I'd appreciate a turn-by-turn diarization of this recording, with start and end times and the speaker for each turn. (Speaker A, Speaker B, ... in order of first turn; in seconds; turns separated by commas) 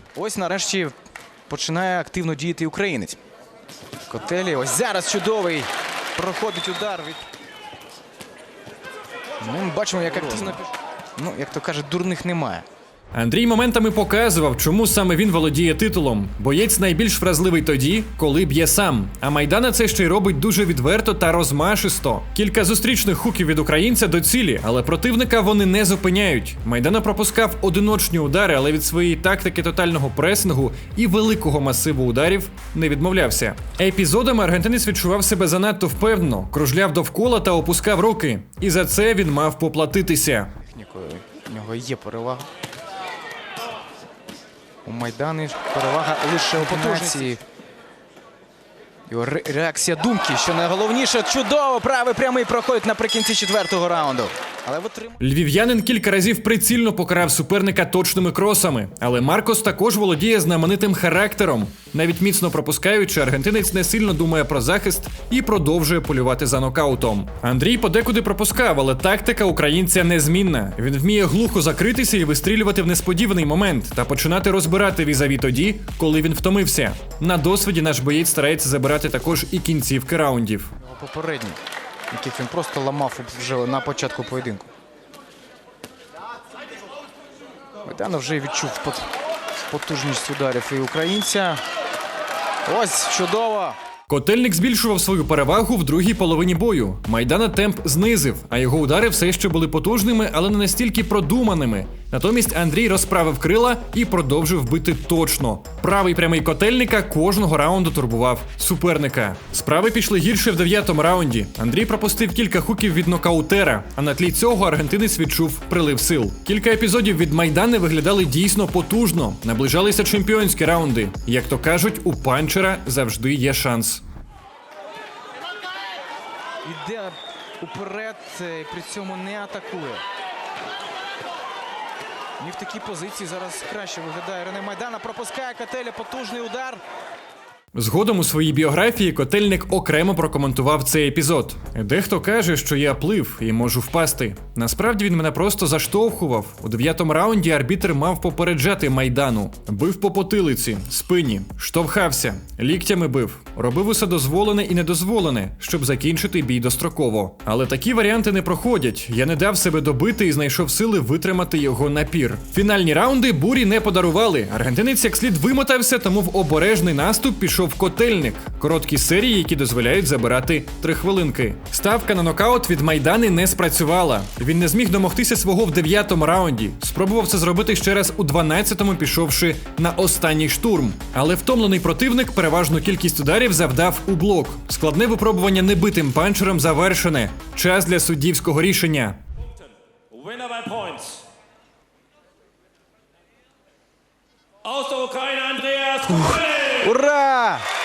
Speaker A: 0.1-0.9, Speaker A: 1.5-3.2, Speaker A: 4.1-7.3, Speaker A: 9.4-12.7, Speaker B: 13.1-40.5, Speaker A: 40.7-42.5, Speaker A: 44.9-47.4, Speaker A: 49.1-55.2, Speaker B: 55.2-80.7, Speaker A: 80.8-81.6, Speaker A: 82.1-84.7, Speaker A: 87.8-89.1, Speaker A: 89.7-91.6, Speaker A: 92.7-93.8, Speaker B: 94.1-124.0, Speaker A: 126.6-130.1, Speaker A: 132.4-136.8, Speaker B: 137.7-189.2, Speaker C: 190.1-191.2, Speaker C: 194.7-196.7, Speaker A: 196.1-197.7